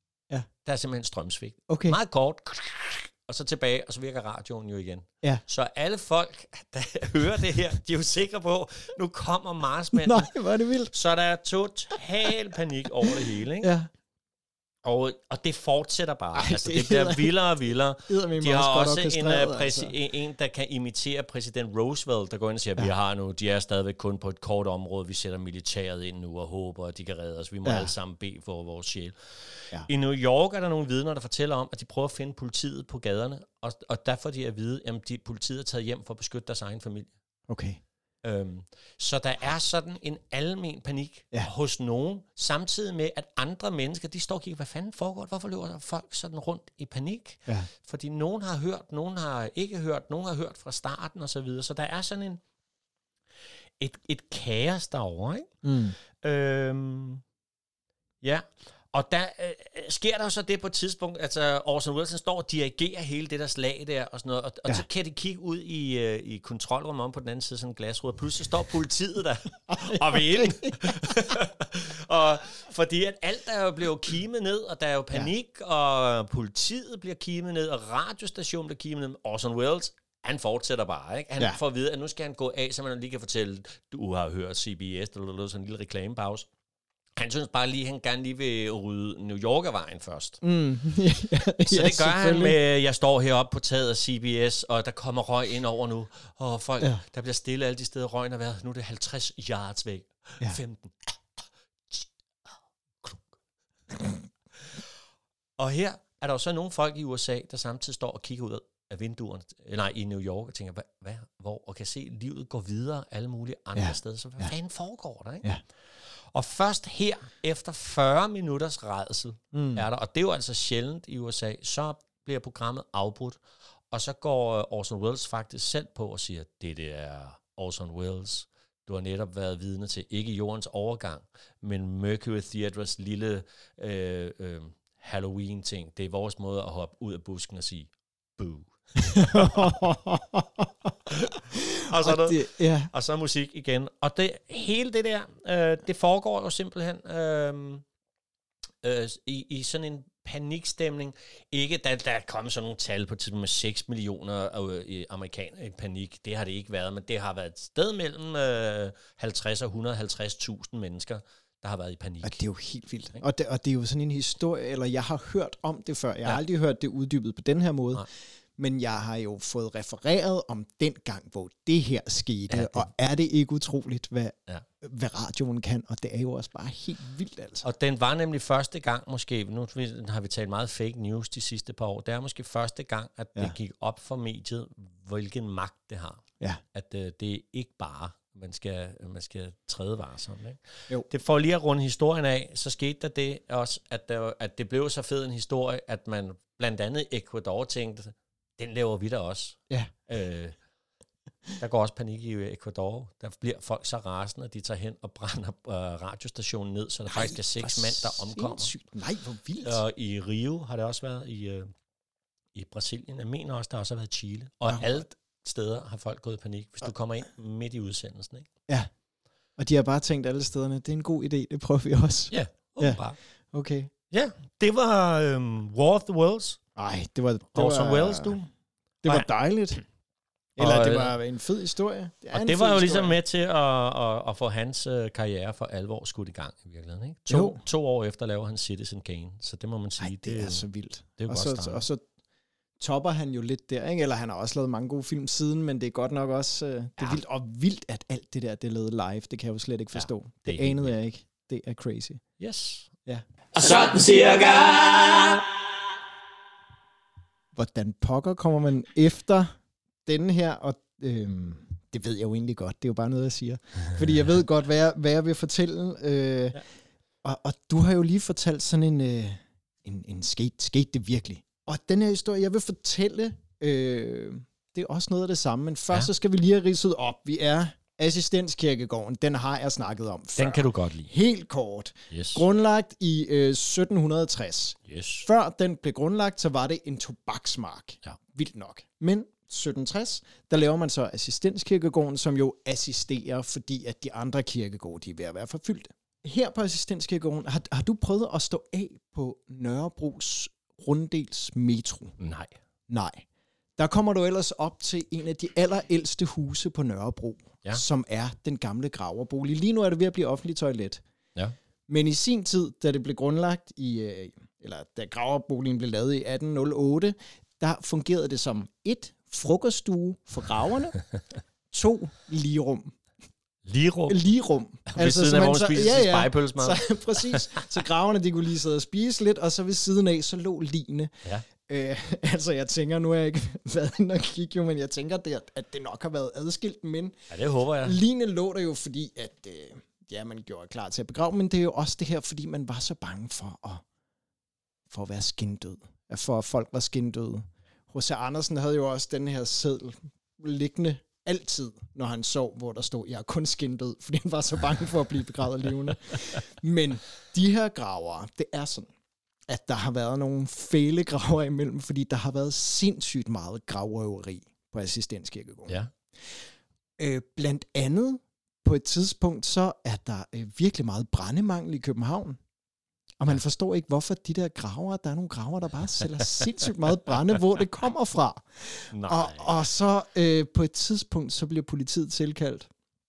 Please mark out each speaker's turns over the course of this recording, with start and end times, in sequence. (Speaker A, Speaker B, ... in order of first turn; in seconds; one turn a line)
Speaker A: 0.6-10.3
Speaker B: 1.7-2.0
Speaker B: 10.0-10.9
Speaker A: 10.9-13.7
Speaker B: 13.1-13.9
Speaker A: 14.8-29.1
Speaker B: 16.4-17.4
Speaker B: 18.1-19.9
Speaker B: 27.6-27.9
Speaker A: 29.9-37.1
Speaker B: 37.5-37.8
Speaker A: 38.2-52.4
Speaker A: 53.8-55.6
Speaker B: 55.6-56.0
Speaker A: 56.2-57.2
Speaker A: 58.2-86.5
Speaker B: 69.7-71.3
Speaker A: 87.2-90.4
Speaker B: 90.4-92.6
Speaker A: 91.7-101.1
Speaker A: 103.0-103.3
Speaker A: 104.6-104.8
Speaker A: 105.6-115.5
Speaker B: 113.8-114.5
Speaker A: 116.3-123.4
Speaker B: 119.5-119.8
Speaker A: 123.9-139.8
Speaker B: 139.1-140.9
Speaker A: 141.1-147.8
Speaker B: 141.5-142.9
Speaker A: 148.8-162.4
Speaker B: 162.2-177.7
Speaker A: 172.5-172.9
Speaker A: 177.6-200.6
Speaker A: 201.6-208.7
Speaker B: 207.1-209.8
Speaker A: 209.6-211.7
Speaker A: 212.5-218.5
Speaker B: 214.7-215.0
Speaker B: 219.6-223.0
Speaker A: 222.3-223.2
Speaker B: 223.5-223.9
Speaker A: 224.1-226.6
Speaker B: 226.8-228.5
Speaker A: 227.5-228.4
Speaker B: 229.0-229.8
Speaker B: 230.6-233.2
Speaker A: 230.6-231.2
Speaker A: 232.3-240.7
Speaker B: 237.3-237.6
Speaker B: 240.0-242.0
Speaker A: 241.2-241.8
Speaker B: 242.8-252.2
Speaker A: 249.9-250.9
Speaker A: 252.4-252.9
Speaker C: 253.5-255.4
Speaker B: 257.5-259.5
Speaker B: 260.1-266.6
Speaker B: 267.2-302.2
Speaker A: 280.4-281.1
Speaker A: 282.1-282.4
Speaker A: 284.9-285.3
Speaker A: 302.2-302.6
Speaker B: 302.9-303.2
Speaker B: 303.8-311.0
Speaker B: 311.9-321.0
Speaker B: 321.7-322.9
Speaker A: 323.6-324.2
Speaker B: 324.1-337.2
Speaker A: 324.9-327.6
Speaker A: 337.3-338.0
Speaker B: 337.8-343.8
Speaker B: 344.9-358.9
Speaker B: 359.5-365.8
Speaker B: 367.0-372.4
Speaker B: 373.2-382.7
Speaker A: 378.9-379.7